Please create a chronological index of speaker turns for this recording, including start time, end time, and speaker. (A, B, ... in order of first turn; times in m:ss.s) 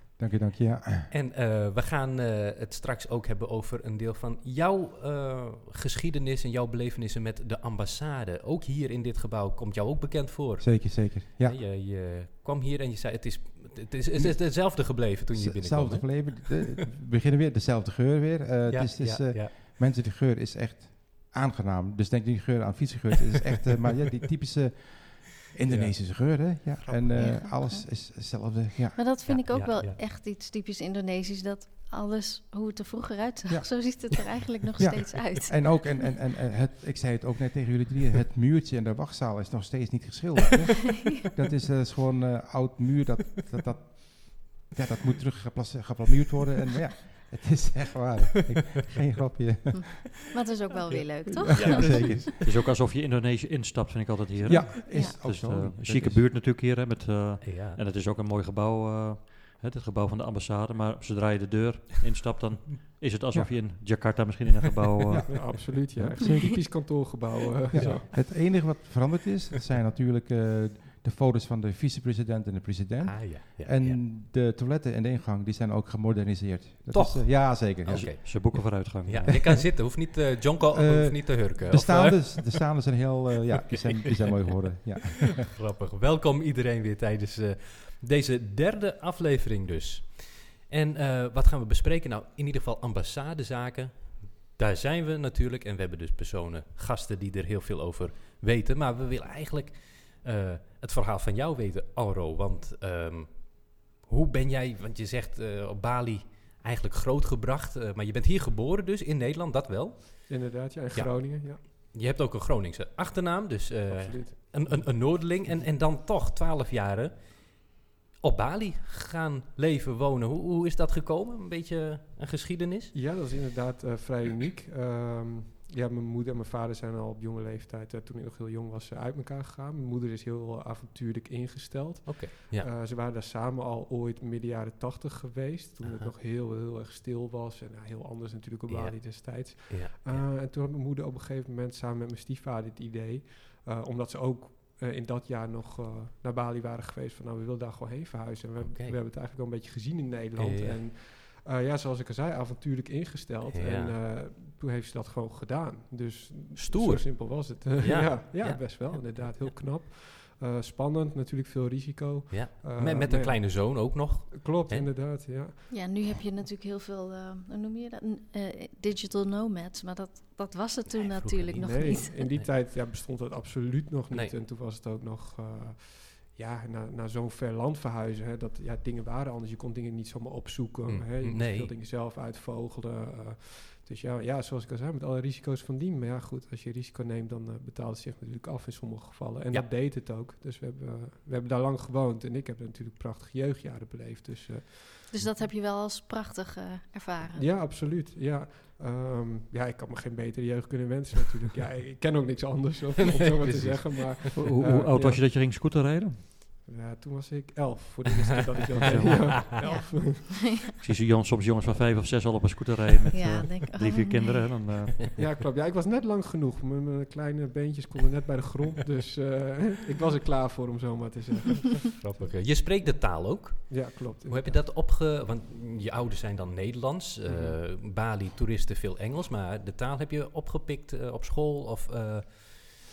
0:00.2-0:01.1 A
0:01.1-0:16.6 B
0:10.6-0:11.6 A
0:14.2-0:29.1 A
0:18.7-0:19.6 B
0:25.7-0:27.3 B
0:27.2-0:27.8 C
0:29.0-0:36.0 C
0:29.2-0:30.0 B
0:33.5-0:34.0 A
0:34.8-0:50.1 A
0:49.7-0:52.3 C
0:50.9-0:52.6 B
0:51.3-0:52.3 A
0:52.4-1:05.6 D
0:54.4-0:56.3 A
0:54.9-0:55.3 C
0:57.4-0:57.8 B
1:03.3-1:03.6 A
1:05.1-1:06.7 A
1:05.3-1:08.1 E
1:07.7-1:18.2 A
1:07.8-1:08.3 B
1:13.0-1:14.1 B
1:16.9-1:23.1 B
1:17.9-1:19.7 D
1:20.7-1:25.5 A
1:25.4-2:03.0 B
1:50.3-1:51.6 E
1:53.9-1:55.7 E
2:02.9-2:46.0 E
2:12.0-2:12.7 B
2:15.8-2:16.1 B
2:18.7-2:20.3 B
2:28.6-2:29.0 B
2:30.4-2:30.8 B
2:33.5-2:33.9 B
2:36.6-2:39.5 B
2:42.3-2:44.9 B
2:45.7-2:52.4 C
2:50.9-2:52.0 B
2:51.6-3:15.4 E
3:00.9-3:01.7 B
3:15.1-3:17.5 C
3:17.3-3:25.3 E
3:23.4-3:24.3 B
3:24.4-3:26.2 D
3:26.6-3:30.6 E
3:28.8-3:29.4 B
3:28.8-3:30.2 D
3:29.4-3:30.8 C
3:30.8-3:35.0 D
3:33.1-3:34.6 C
3:35.2-3:42.9 E
3:41.9-3:52.6 B
3:43.4-3:44.6 E
3:47.2-3:47.6 E